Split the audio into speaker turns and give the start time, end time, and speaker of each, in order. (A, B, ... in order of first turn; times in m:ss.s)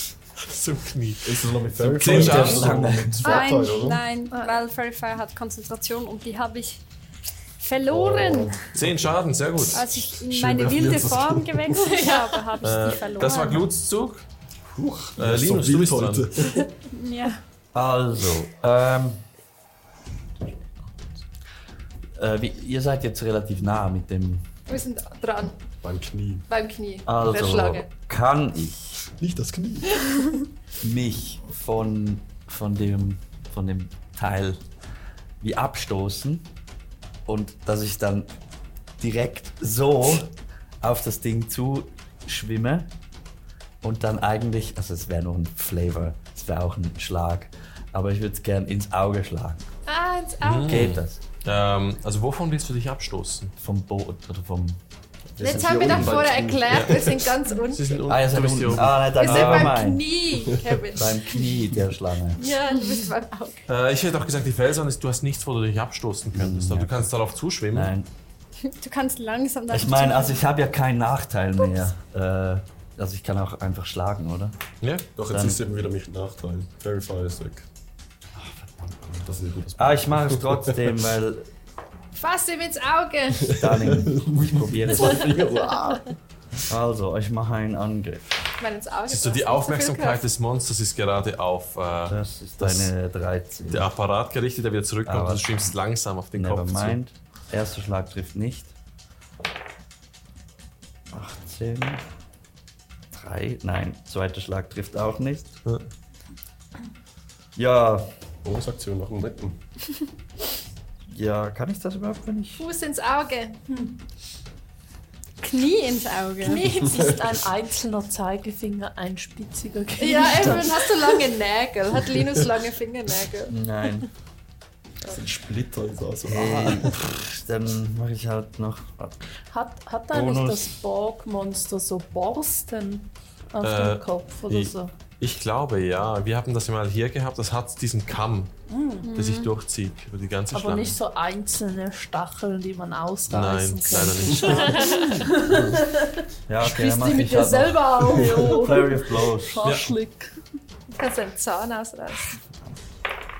0:00.4-0:03.0 A
0:01.2-0:04.0 B
0:02.0-0:03.2 C
0:03.2-0:06.8 D
0:03.2-0:03.6 E
0:04.3-0:04.6 E
0:07.6-0:08.6 D
0:07.9-0:09.1 B
0:08.8-0:09.8 A
0:09.7-0:13.7 D
0:10.1-0:11.7 B
0:11.8-0:12.4 E
0:12.6-0:14.2 A
0:14.8-0:16.6 B
0:15.2-0:16.3 A
0:16.9-0:17.4 D
0:17.7-0:19.2 C
0:22.2-0:24.5 C
0:24.7-0:25.6 E
0:25.8-0:26.5 B
0:26.5-0:27.9 E
0:27.1-0:29.0 C
0:29.2-0:30.0 B
0:30.8-0:34.6 C
0:35.4-0:36.5 C
0:37.3-0:38.3 C
0:39.0-0:42.9 C
0:43.8-0:49.7 C
0:49.9-0:50.8 E
0:50.4-0:53.5 A
0:50.7-0:51.2 C
0:53.6-0:54.8 C
0:55.4-0:57.3 B
0:55.4-0:58.0 E
0:56.7-0:57.0 A
0:57.7-0:59.7 A
0:58.1-1:00.1 C
0:59.1-1:01.4 E
1:01.0-1:02.5 C
1:02.4-1:03.6 E
1:03.7-1:07.9 A
1:06.3-1:07.1 C
1:07.7-1:08.1 C
1:08.6-1:10.4 D
1:09.7-1:14.6 C
1:14.8-1:15.1 A
1:15.2-1:17.7 B
1:15.3-1:15.6 C
1:18.4-1:19.2 C
1:19.2-1:20.8 B
1:19.8-1:21.5 C
1:22.2-1:23.5 E
1:23.4-1:26.1 B
1:23.5-1:25.4 C
1:26.7-1:28.3 C
1:28.6-1:30.3 E
1:29.1-1:32.9 A
1:32.1-1:33.9 C
1:33.7-1:37.0 A
1:35.0-1:35.8 C
1:36.3-1:38.8 C
1:41.1-1:42.0 C
1:43.1-1:45.6 C
1:47.6-1:48.1 C
1:48.4-1:49.6 B
1:51.1-1:52.6 C
1:52.6-1:53.6 E
1:55.4-1:56.6 D
1:56.4-1:57.2 E
1:56.9-2:01.1 F
2:00.0-2:03.6 E
2:03.5-2:04.1 C
2:05.0-2:07.0 B
2:06.2-2:09.2 C
2:09.5-2:14.9 F
2:10.1-2:10.8 C
2:13.6-2:18.5 A
2:18.7-2:19.1 F
2:19.0-2:19.5 D
2:19.1-2:21.0 A
2:20.5-2:25.9 F
2:23.3-2:24.9 A
2:24.6-2:25.3 E
2:25.4-2:25.8 C
2:26.5-2:29.7 C
2:26.6-2:28.7 E
2:28.0-2:30.3 F
2:29.6-2:29.9 A
2:30.9-2:32.4 E